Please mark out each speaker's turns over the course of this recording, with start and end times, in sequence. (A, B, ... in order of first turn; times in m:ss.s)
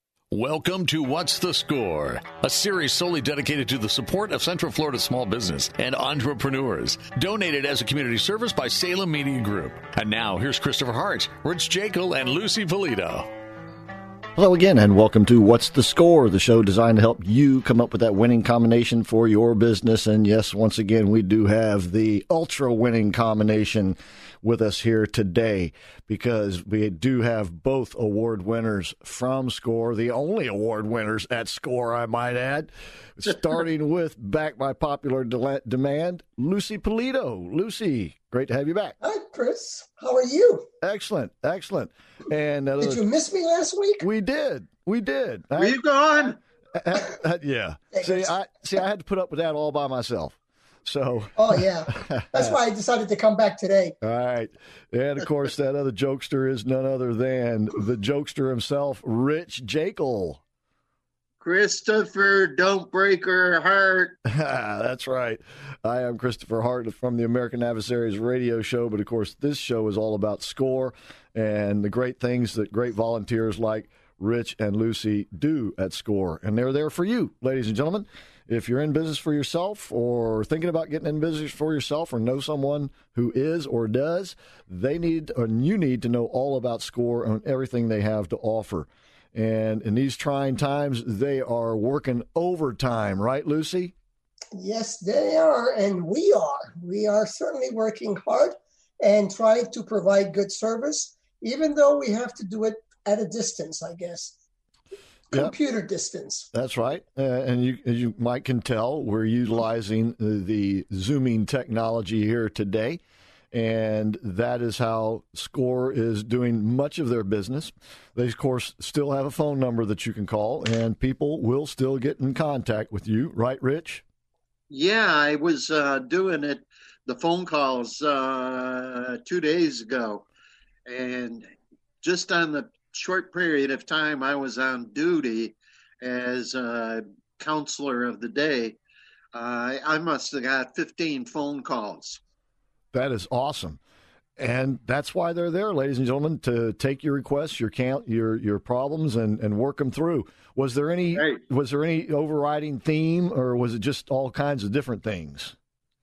0:00.3-0:13.3 A
0:14.4-0:39.0 B
0:39.0-0:40.7 C
0:40.8-0:43.0 B
0:42.8-0:44.1 C
0:44.0-0:45.8 B
0:45.6-0:46.4 D
0:46.8-0:52.6 B
0:47.9-0:48.3 C
0:51.4-0:54.0 C
0:54.0-1:00.4 B
1:01.4-1:04.2 D
1:04.2-1:33.9 B
1:34.6-1:44.4 C
1:45.3-1:46.5 C
1:46.5-1:53.0 B
1:53.5-2:04.0 B
2:04.7-2:10.2 D
2:10.8-2:11.5 D
2:12.0-2:18.8 D
2:19.3-2:22.2 D
2:22.9-2:23.8 B
2:24.4-2:35.6 B
2:31.1-2:31.4 D